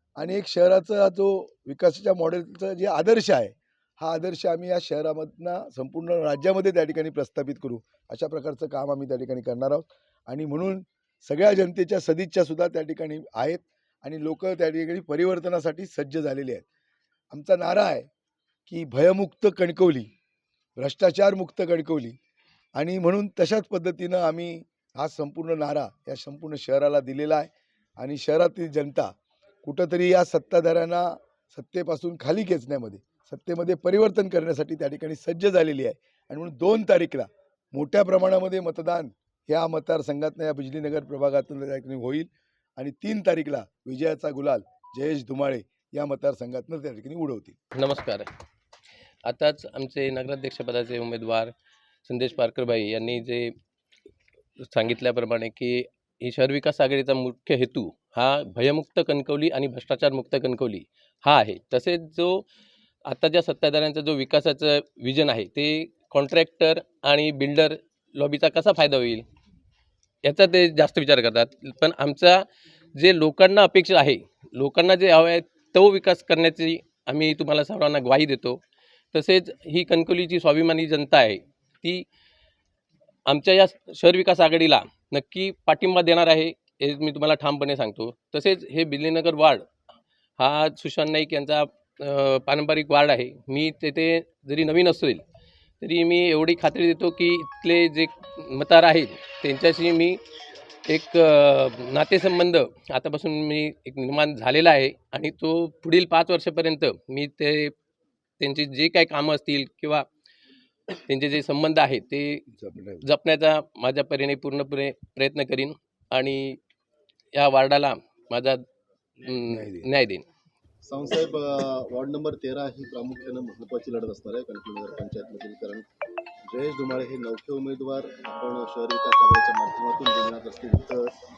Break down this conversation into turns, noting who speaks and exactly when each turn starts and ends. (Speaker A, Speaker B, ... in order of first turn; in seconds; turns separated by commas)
Speaker A: 0.2-16.6, Speaker A: 17.3-18.1, Speaker A: 18.7-20.1, Speaker A: 20.8-22.2, Speaker A: 22.8-29.1, Speaker A: 29.6-47.6, Speaker B: 47.8-48.3, Speaker B: 49.2-51.5, Speaker B: 52.1-53.5, Speaker B: 54.6-62.5, Speaker B: 63.1-69.2, Speaker B: 70.2-78.6, Speaker B: 79.1-82.1, Speaker B: 83.3-89.7, Speaker B: 90.4-95.2, Speaker B: 95.8-100.2, Speaker B: 100.9-107.8, Speaker B: 108.4-110.1, Speaker B: 111.1-112.5, Speaker A: 112.6-113.0, Speaker B: 113.0-116.6, Speaker B: 117.3-118.6, Speaker B: 119.2-120.3, Speaker A: 119.5-119.9, Speaker C: 120.8-125.8, Speaker C: 126.5-131.1